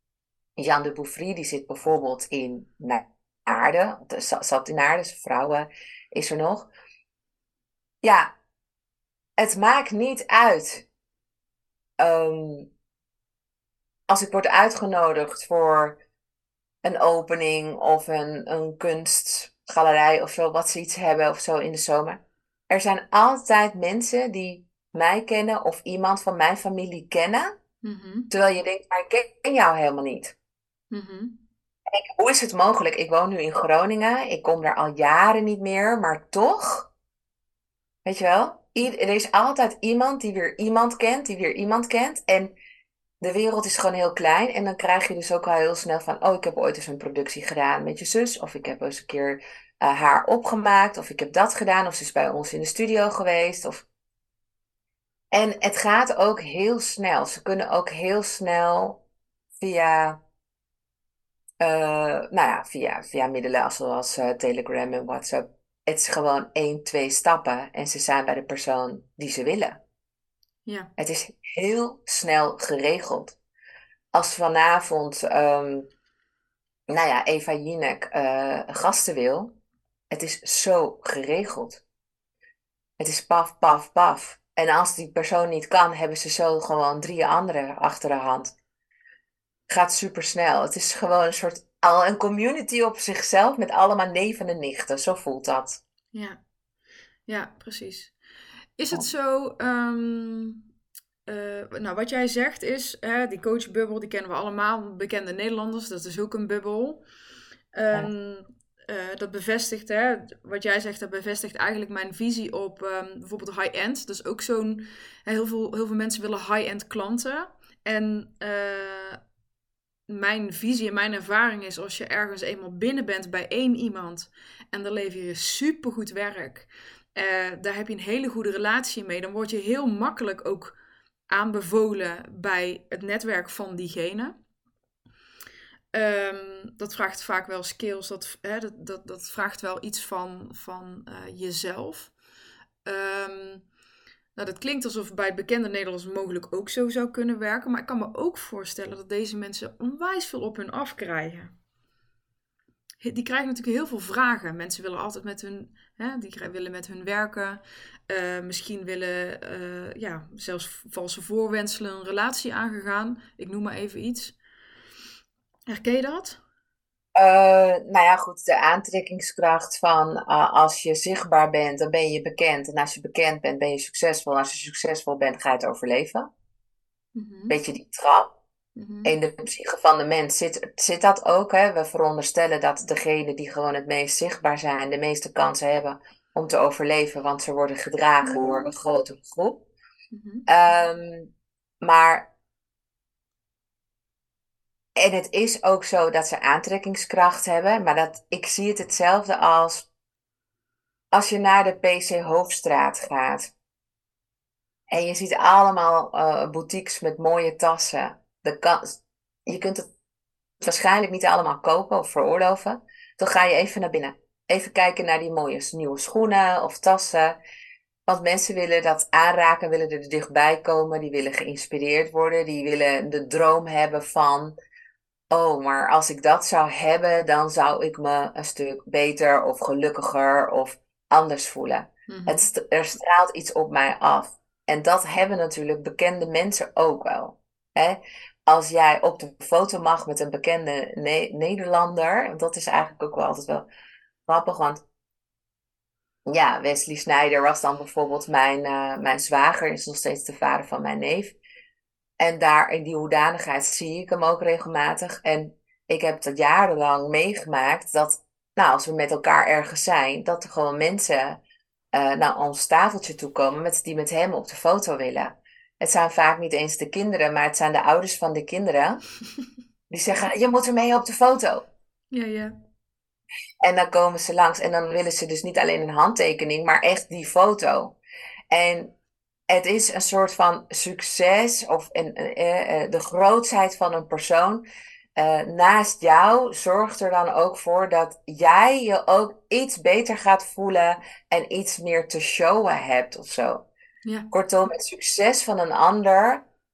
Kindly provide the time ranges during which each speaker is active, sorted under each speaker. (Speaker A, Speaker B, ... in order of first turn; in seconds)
Speaker A: 0.6-6.7, 8.0-8.3, 9.4-10.8, 12.0-12.7, 14.1-16.0, 16.8-27.5, 28.3-30.3, 31.9-36.9, 38.0-42.5, 43.2-53.9, 55.3-59.0, 59.6-60.2, 61.6-69.8, 71.0-73.4, 74.1-75.9, 76.9-79.5, 80.1-81.8, 83.0-88.5, 89.7-95.8, 167.2-176.3, 177.5-178.3, 179.1-189.6, 190.5-191.3, 191.8-192.3, 195.0-199.9, 201.1-203.5, 204.9-209.9, 210.6-217.4, 218.1-224.5, 225.3-243.7, 244.3-244.8, 246.3-251.3, 252.2-261.4, 261.9-269.0, 269.9-271.6, 273.6-278.0, 278.5-278.9, 279.5-284.6, 285.2-293.6, 294.3-296.4
Speaker B: 27.8-28.3, 30.9-31.3, 97.3-98.1, 98.8-100.6, 101.3-107.0, 107.7-119.2, 120.1-130.8, 131.3-134.3, 135.9-142.1, 142.8-143.7, 144.3-151.5, 153.0-164.4, 165.7-166.4, 177.2-177.6, 178.8-179.1, 190.1-190.5, 232.1-232.5, 272.1-272.5